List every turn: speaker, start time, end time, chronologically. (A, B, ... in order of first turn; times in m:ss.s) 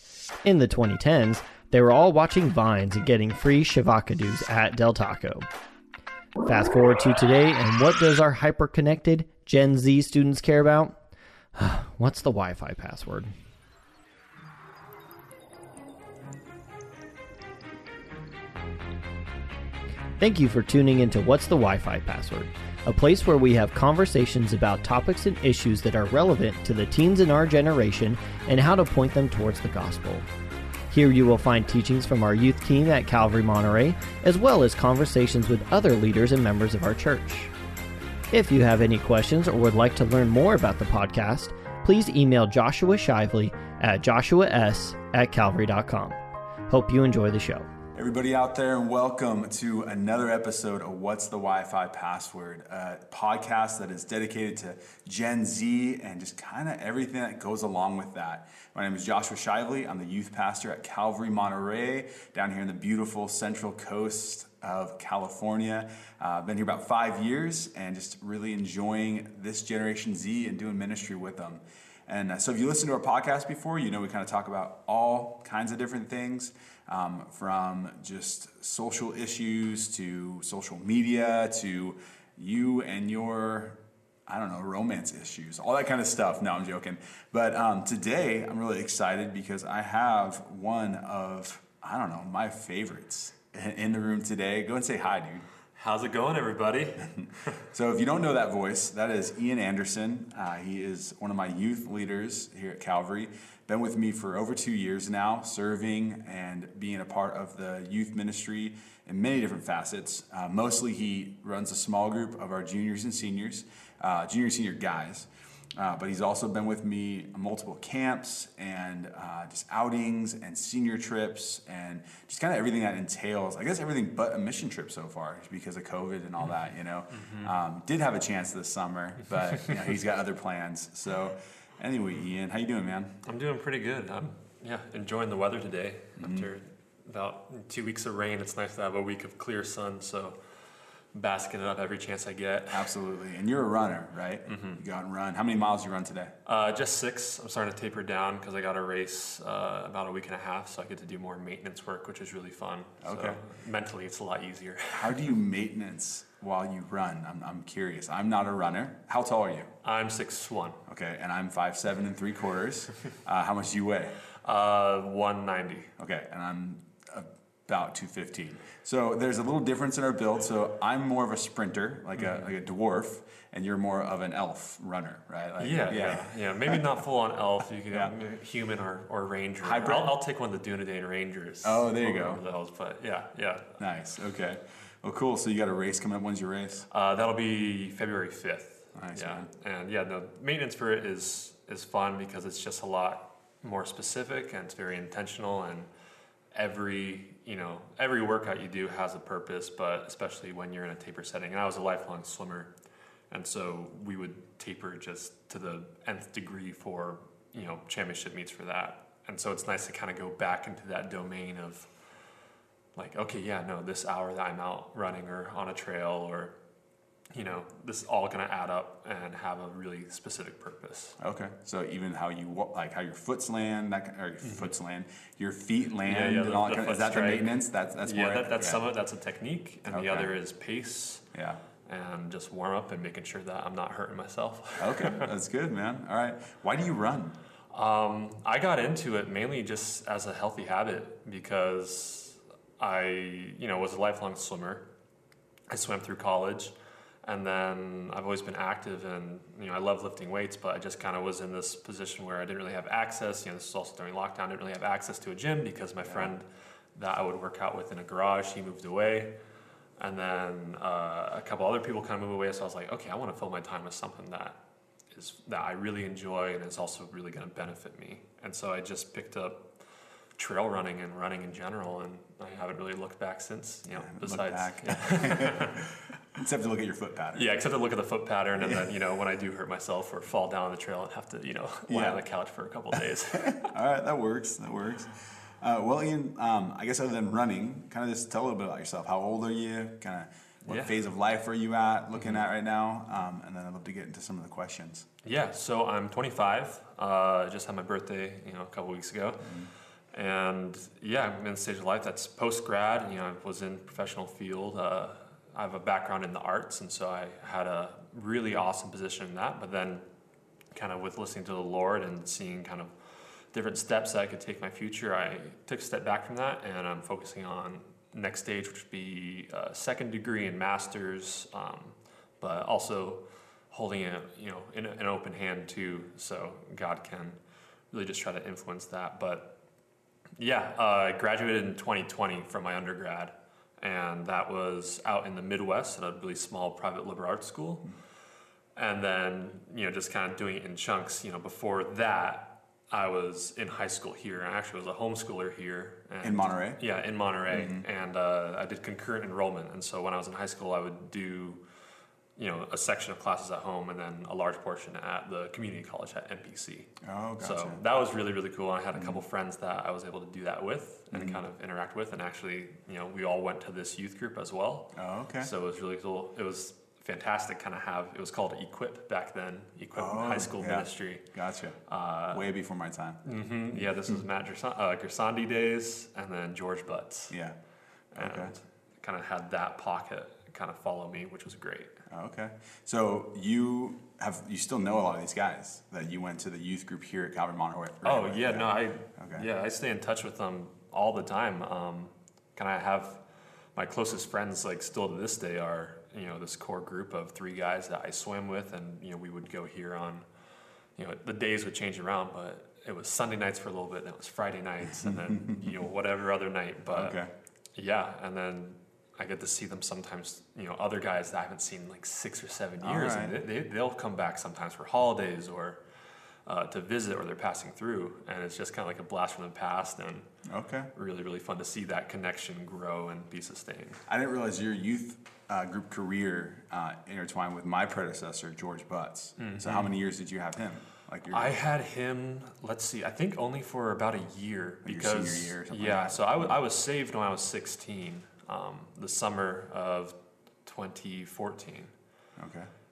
0:00.4-0:05.5 A
0:06.4-0:11.0 A
0:11.6-0:13.3 A
0:20.2-0:30.2 A
0:30.9-0:37.5 A
0:38.3-0:47.6 A
0:47.9-1:35.4 B
1:35.7-1:37.6 C
1:37.2-2:13.2 B
2:07.1-2:07.5 C
2:09.5-2:09.8 C
2:13.2-2:20.4 C
2:16.2-2:16.5 B
2:21.1-2:22.9 C
2:22.7-2:26.3 B
2:24.5-2:24.8 C
2:26.4-2:35.3 C
2:33.0-2:33.4 B
2:34.9-2:39.7 B
2:39.8-2:40.8 C
2:40.9-2:44.2 B
2:44.4-2:45.9 C
2:46.0-2:56.8 B
2:52.2-2:52.5 C
2:55.6-3:03.8 C
2:59.6-3:00.2 B
3:01.6-3:02.4 B
3:03.8-3:06.9 B
3:06.9-3:15.9 C
3:08.9-3:09.5 B
3:16.5-3:22.7 C
3:23.3-3:31.9 C
3:33.0-3:36.6 C
3:37.3-3:41.2 C
3:41.2-3:48.8 B
3:44.4-3:44.7 C
3:46.0-3:51.2 C
3:49.9-3:50.3 B
3:51.3-3:51.6 B
3:51.9-3:55.3 C
3:54.8-3:57.4 B
3:57.7-4:04.8 C
4:05.7-4:06.7 C
4:07.2-4:19.3 C
4:16.0-4:16.3 B
4:20.0-4:24.6 C
4:25.1-4:29.7 C
4:30.4-4:35.8 C
4:33.9-4:37.5 B
4:37.3-4:43.7 C
4:38.6-4:38.9 B
4:41.9-4:42.2 B
4:43.3-4:55.1 B
4:50.6-4:50.9 C
4:52.2-4:52.4 C
4:55.2-4:59.5 C
4:59.4-4:59.7 B
5:00.1-5:10.0 C
5:10.7-5:27.4 C
5:27.9-5:29.5 C
5:30.4-5:37.9 C
5:38.8-5:51.6 C
5:46.2-5:46.8 B
5:47.5-5:47.8 B
5:52.4-6:11.2 C
5:57.0-5:57.8 B
5:58.9-5:59.2 B
6:01.1-6:01.4 B
6:04.9-6:05.5 B
6:09.9-6:13.2 B
6:11.9-6:12.4 C
6:13.2-6:17.4 C
6:13.7-6:14.2 B
6:17.3-6:17.6 B
6:18.1-6:22.0 C
6:18.2-6:18.5 B
6:22.1-6:29.5 B
6:28.0-6:33.2 C
6:33.8-6:40.2 C
6:41.0-6:47.2 C
6:45.0-6:45.8 B
6:46.9-6:47.3 B
6:47.8-6:55.8 C
6:52.8-6:53.4 B
6:56.4-7:00.3 C
7:00.4-7:00.9 B
7:00.9-7:04.0 C
7:04.1-7:11.6 B
7:09.4-7:09.9 C
7:11.3-7:21.9 C
7:14.8-7:16.6 B
7:22.4-7:22.7 B